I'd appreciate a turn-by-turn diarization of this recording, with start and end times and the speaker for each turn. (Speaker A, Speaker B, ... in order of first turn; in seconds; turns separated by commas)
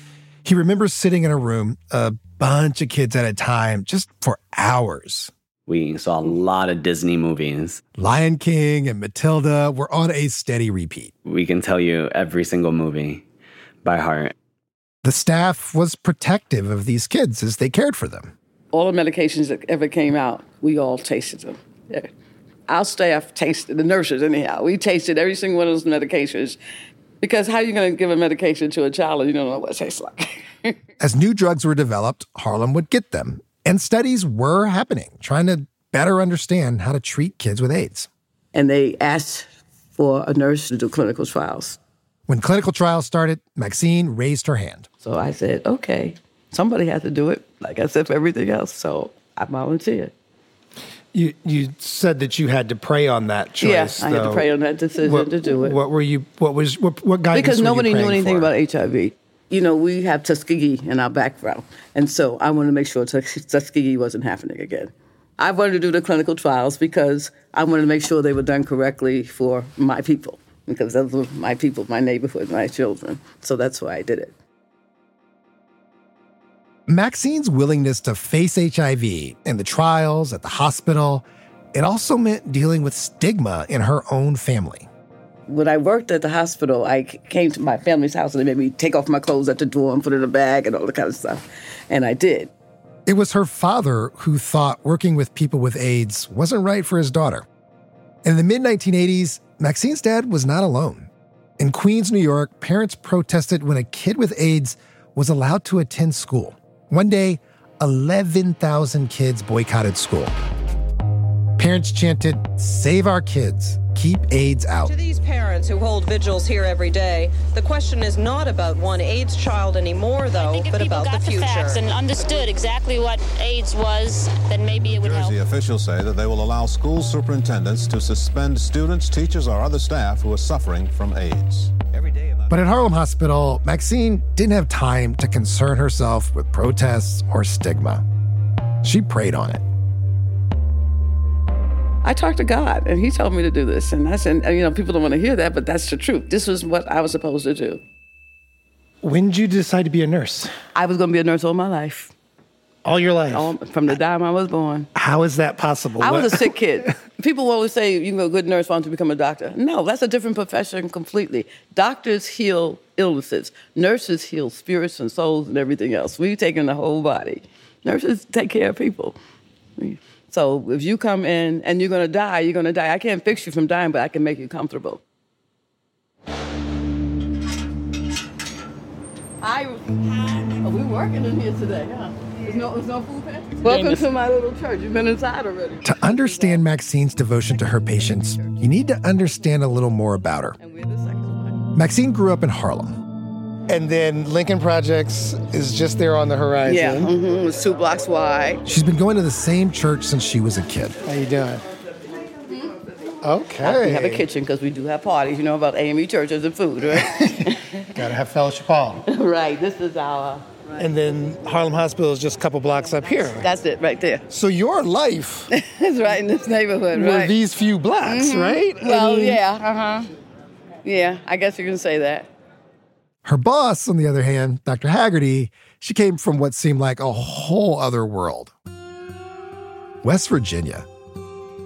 Speaker A: 0.4-5.3, Speaker B: 5.7-7.8, Speaker A: 8.0-11.1, Speaker B: 11.2-13.2, Speaker B: 13.8-14.3, Speaker A: 15.0-18.3, Speaker C: 18.7-22.1, Speaker C: 22.7-26.6, Speaker C: 27.2-30.8, Speaker A: 31.0-38.1, Speaker C: 38.5-41.8, Speaker A: 42.3-44.9, Speaker C: 45.0-50.1, Speaker A: 51.1-54.5, Speaker C: 53.6-55.8, Speaker A: 55.0-58.5, Speaker C: 57.3-74.3, Speaker A: 76.9-84.9, Speaker C: 85.5-92.5, Speaker A: 93.0-97.5, Speaker A: 98.2-110.4, Speaker A: 111.6-114.9, Speaker D: 114.9-115.3, Speaker D: 119.4-119.9, Speaker E: 120.4-125.3, Speaker D: 120.5-121.7, Speaker F: 124.8-132.5, Speaker A: 132.5-138.0, Speaker A: 138.8-139.6, Speaker C: 142.0-147.8, Speaker A: 149.0-150.5, Speaker C: 150.7-152.1, Speaker A: 152.8-154.0, Speaker C: 153.3-154.9, Speaker A: 154.9-156.9, Speaker C: 156.0-169.2, Speaker C: 169.8-175.0, Speaker C: 179.4-186.6, Speaker A: 185.8-190.6, Speaker C: 187.8-188.5, Speaker C: 190.6-191.7, Speaker A: 191.7-193.0, Speaker A: 193.7-197.1, Speaker C: 196.6-198.6, Speaker A: 198.6-201.6, Speaker A: 203.2-204.2, Speaker C: 203.6-208.0, Speaker A: 206.9-209.0, Speaker C: 209.1-210.9, Speaker A: 210.8-213.5, Speaker C: 213.0-214.2, Speaker A: 214.3-215.5, Speaker C: 215.5-217.3, Speaker A: 216.9-219.4, Speaker C: 218.0-220.1, Speaker C: 220.8-222.3, Speaker A: 223.2-228.5, Speaker A: 230.0-230.9